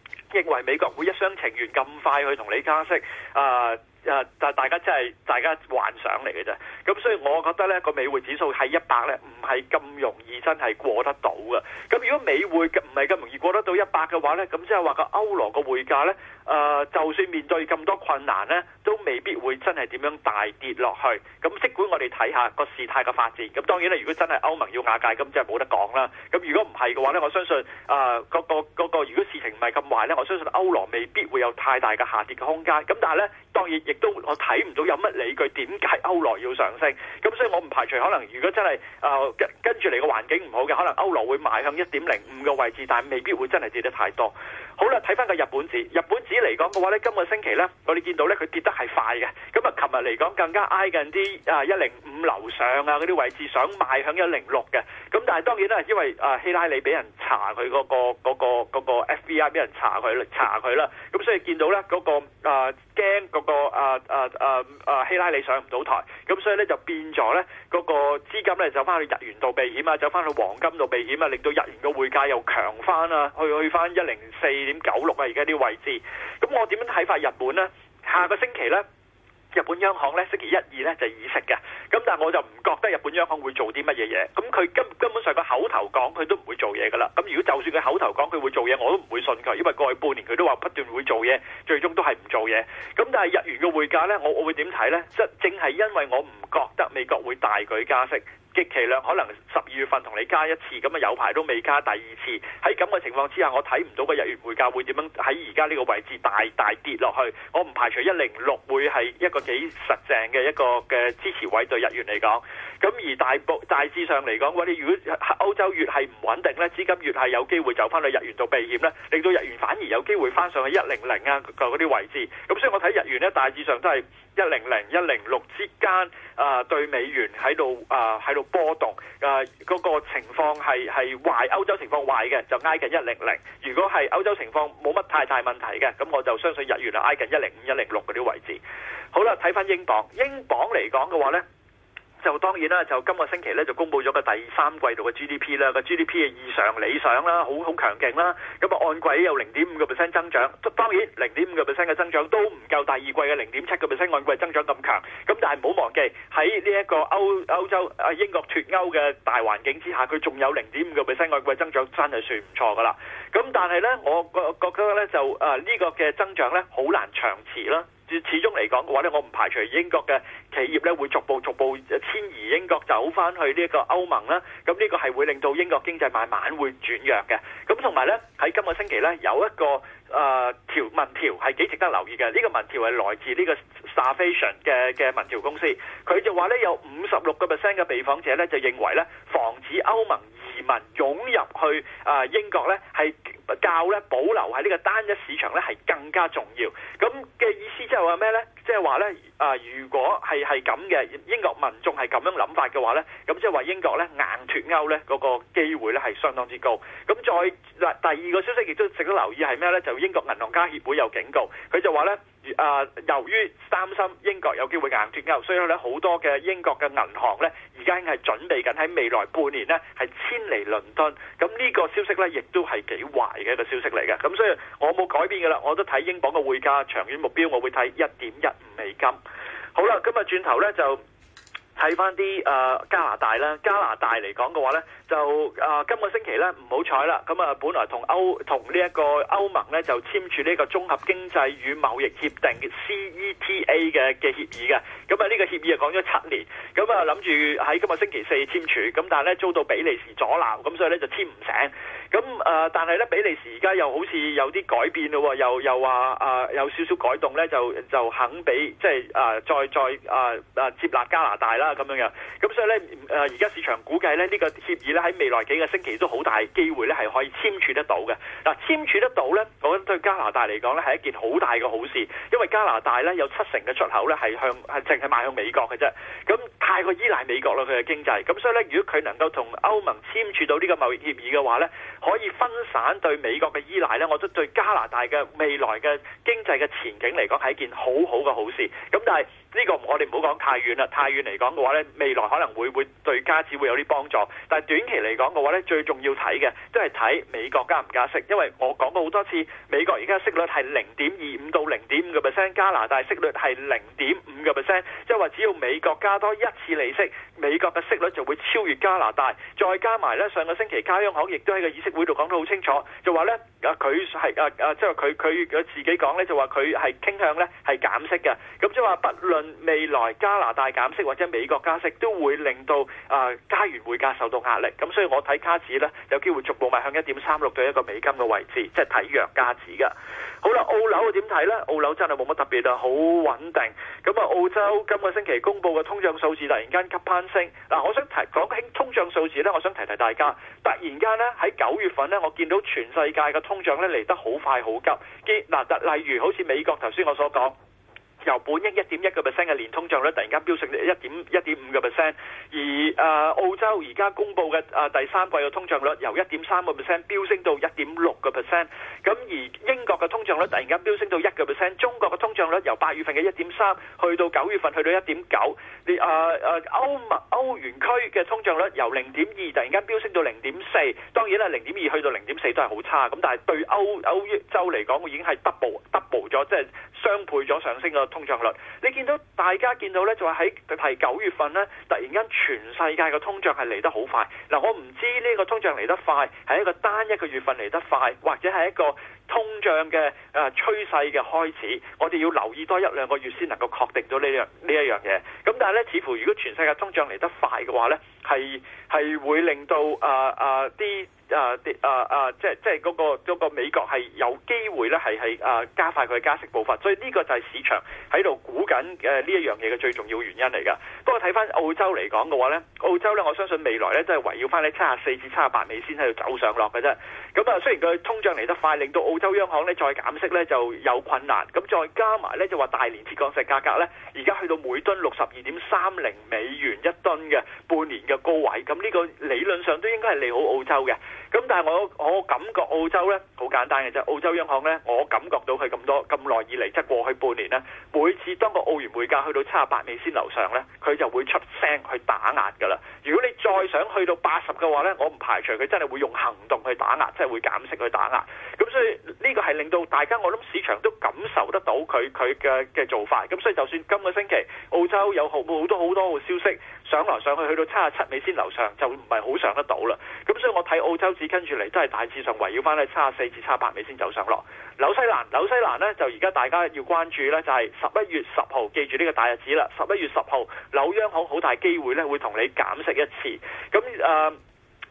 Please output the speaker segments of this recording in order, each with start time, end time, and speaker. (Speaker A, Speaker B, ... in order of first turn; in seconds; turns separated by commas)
Speaker A: 0.3-78.8, Speaker A: 79.5-138.6, Speaker A: 139.1-141.4, Speaker A: 142.2-229.2, Speaker A: 229.7-231.0, Speaker A: 231.8-347.6, Speaker A: 348.2-474.4